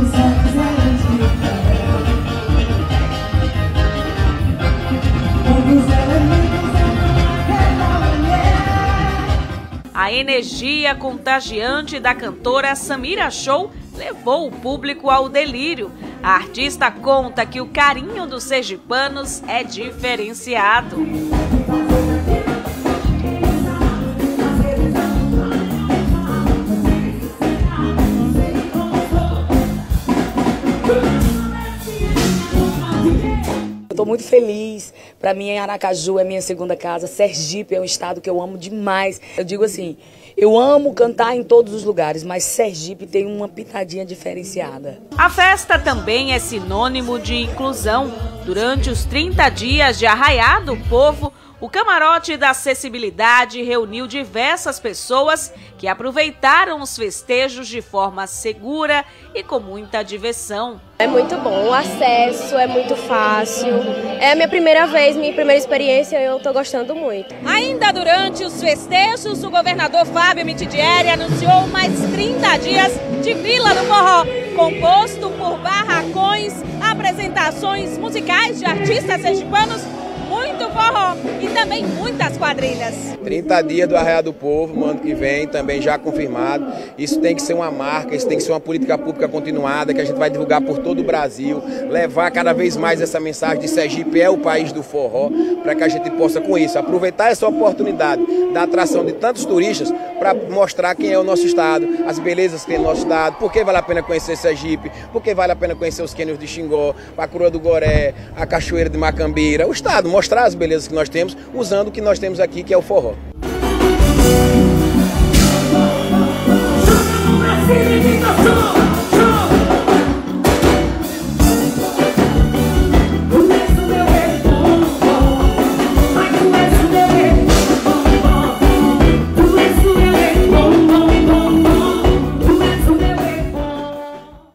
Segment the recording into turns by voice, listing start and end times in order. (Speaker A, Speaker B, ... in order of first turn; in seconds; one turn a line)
Speaker A: 9.9-21.0
Speaker B: 33.9-45.0
Speaker A: 45.2-60.8
Speaker C: 61.0-67.4
Speaker D: 67.5-83.1
Speaker E: 83.2-113.2
Speaker B: 117.7-118.5
Speaker B: 123.7-124.0
Speaker B: 126.4-127.3
Speaker B: 129.4-131.1
Speaker B: 132.6-133.5